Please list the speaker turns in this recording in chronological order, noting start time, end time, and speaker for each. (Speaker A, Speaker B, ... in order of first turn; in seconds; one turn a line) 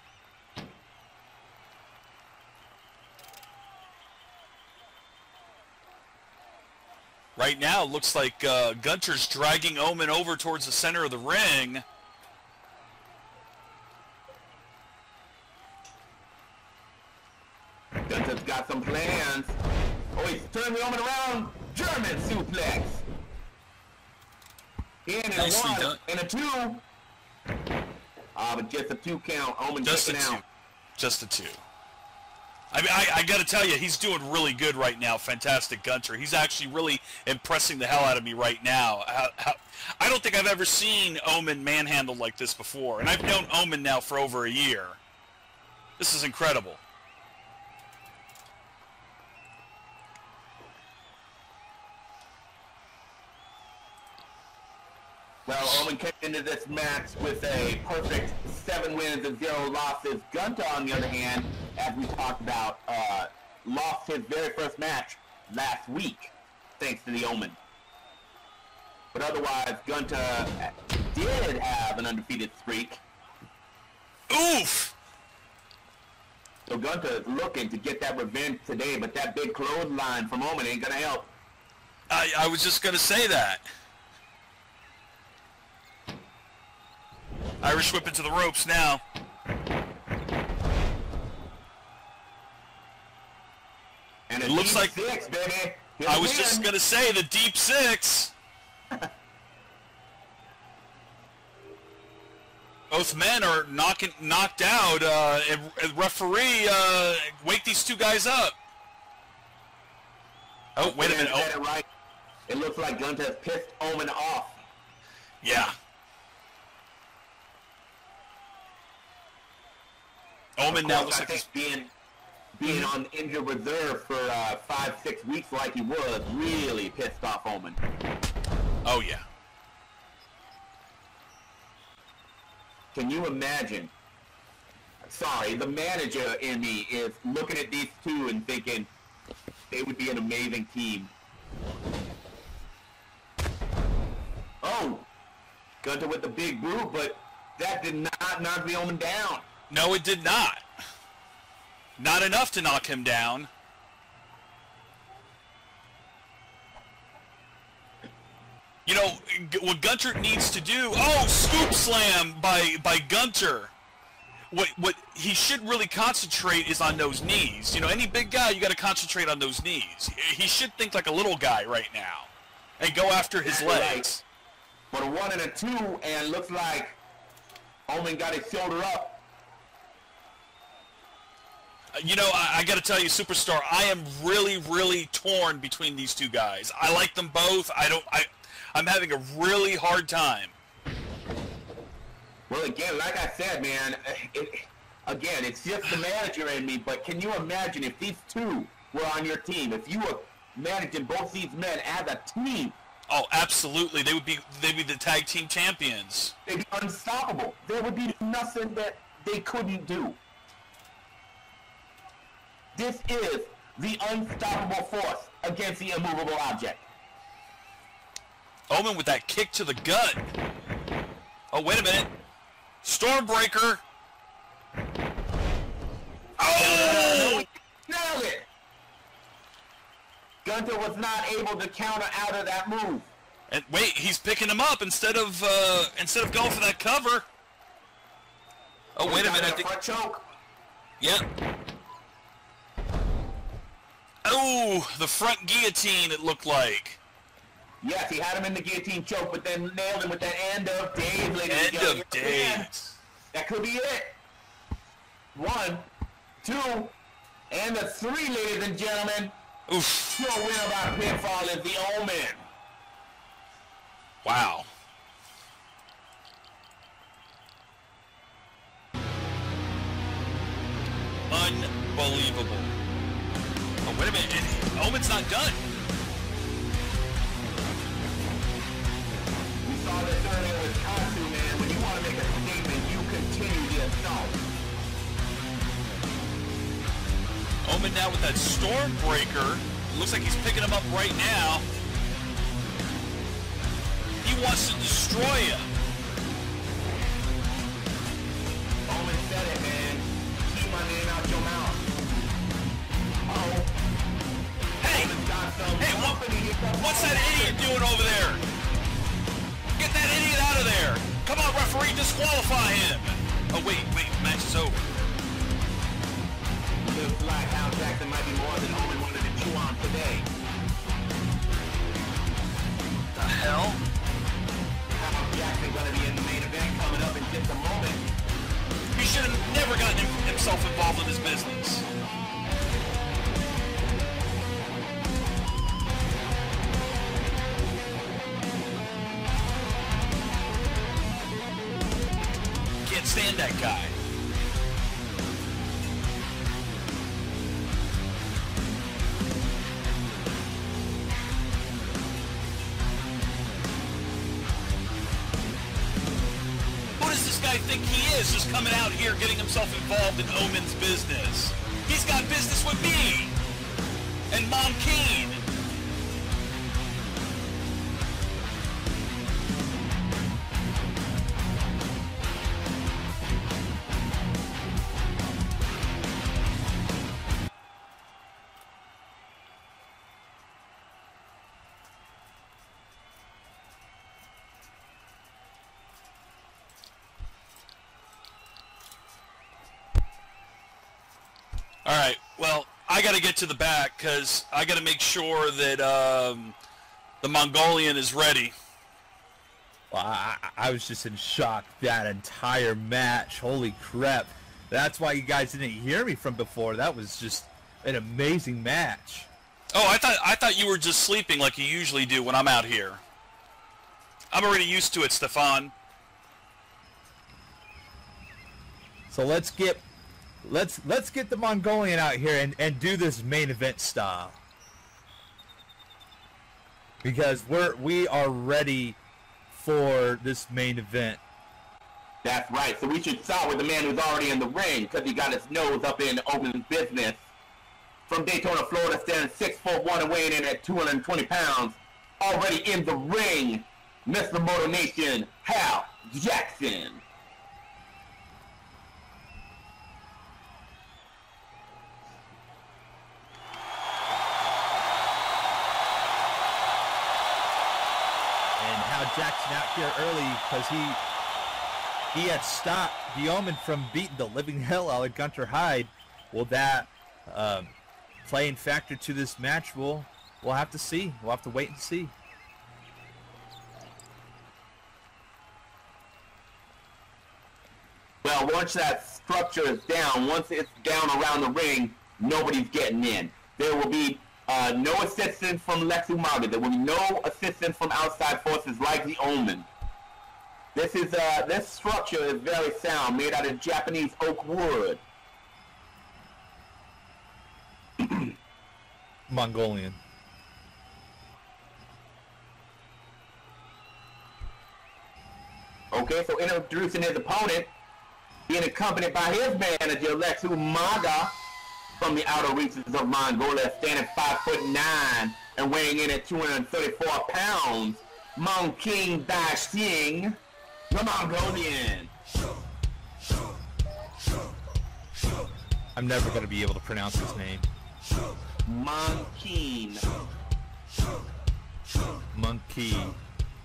Speaker A: 7.3-11.8
Speaker B: 18.1-19.6
Speaker B: 20.1-23.0
Speaker B: 25.1-26.8
Speaker A: 25.3-26.0
Speaker B: 28.3-30.4
Speaker A: 29.8-30.4
Speaker A: 31.0-31.6
Speaker A: 32.7-45.0
Speaker A: 46.0-46.8
Speaker B: 55.5-67.6
Speaker B: 69.1-73.0
Speaker A: 74.3-74.9
Speaker B: 76.7-81.3
Speaker A: 82.1-83.6
Speaker A: 87.6-89.0
Speaker B: 94.3-96.7
Speaker A: 94.4-95.1
Speaker A: 96.0-98.3
Speaker A: 102.9-108.5
Speaker A: 110.8-111.5
Speaker B: 110.8-111.8
Speaker B: 112.5-114.6
Speaker A: 115.4-115.8
Speaker A: 120.6-121.4
Speaker B: 120.7-121.9
Speaker B: 122.6-127.8
Speaker A: 122.6-122.9
Speaker A: 128.8-129.2
Speaker B: 132.9-133.9
Speaker B: 135.0-138.9
Speaker B: 139.7-141.1
Speaker B: 144.6-145.1
Speaker B: 145.8-149.4
Speaker A: 149.7-150.6
Speaker A: 152.0-153.5
Speaker A: 158.8-163.7
Speaker A: 164.5-174.2
Speaker B: 173.4-174.1
Speaker B: 174.9-177.0
Speaker B: 177.9-179.2
Speaker A: 181.9-190.5
Speaker B: 192.5-202.8
Speaker A: 203.1-206.3
Speaker B: 206.4-210.2
Speaker B: 212.7-216.8
Speaker A: 218.7-220.2
Speaker A: 221.5-222.1
Speaker A: 222.8-223.8
Speaker A: 226.4-227.4
Speaker B: 226.5-228.4
Speaker B: 230.4-233.1
Speaker A: 233.5-237.3
Speaker A: 238.9-239.7
Speaker B: 239.0-240.3
Speaker A: 244.2-247.0
Speaker B: 247.8-252.7
Speaker A: 251.4-253.0
Speaker B: 253.3-254.2
Speaker B: 255.3-255.9
Speaker B: 256.4-256.9
Speaker B: 257.5-259.3
Speaker A: 259.7-260.2
Speaker B: 260.1-262.4
Speaker A: 264.2-264.7
Speaker A: 271.3-272.7
Speaker A: 273.8-275.6
Speaker B: 279.6-284.4
Speaker A: 287.6-291.6
Speaker A: 294.2-295.7
Speaker B: 298.9-301.9
Speaker B: 303.3-303.7
Speaker A: 304.8-305.1
Speaker B: 304.8-307.7
Speaker A: 305.8-306.2
Speaker A: 306.8-308.4
Speaker A: 309.8-314.8
Speaker B: 316.8-320.3
Speaker A: 323.2-323.8
Speaker B: 324.9-328.0
Speaker A: 328.9-331.8
Speaker A: 342.8-343.9
Speaker A: 357.0-363.3
Speaker A: 364.3-365.4
Speaker A: 391.8-396.6
Speaker A: 397.2-398.5
Speaker C: 399.9-409.3
Speaker A: 409.7-413.0
Speaker A: 414.3-415.7
Speaker C: 419.1-419.8
Speaker C: 420.4-424.4
Speaker C: 427.0-429.0
Speaker C: 429.5-431.2
Speaker B: 432.2-437.2
Speaker B: 438.1-447.0
Speaker C: 458.6-461.0
Speaker C: 462.1-467.7
Speaker C: 468.2-472.1
Speaker B: 478.2-489.7
Speaker B: 490.7-495.0
Speaker B: 498.0-498.3
Speaker C: 499.3-500.0
Speaker B: 505.9-507.7
Speaker B: 508.5-511.4
Speaker B: 512.0-520.4
Speaker B: 520.9-522.1
Speaker C: 525.9-527.7
Speaker B: 528.6-530.0
Speaker C: 532.3-533.2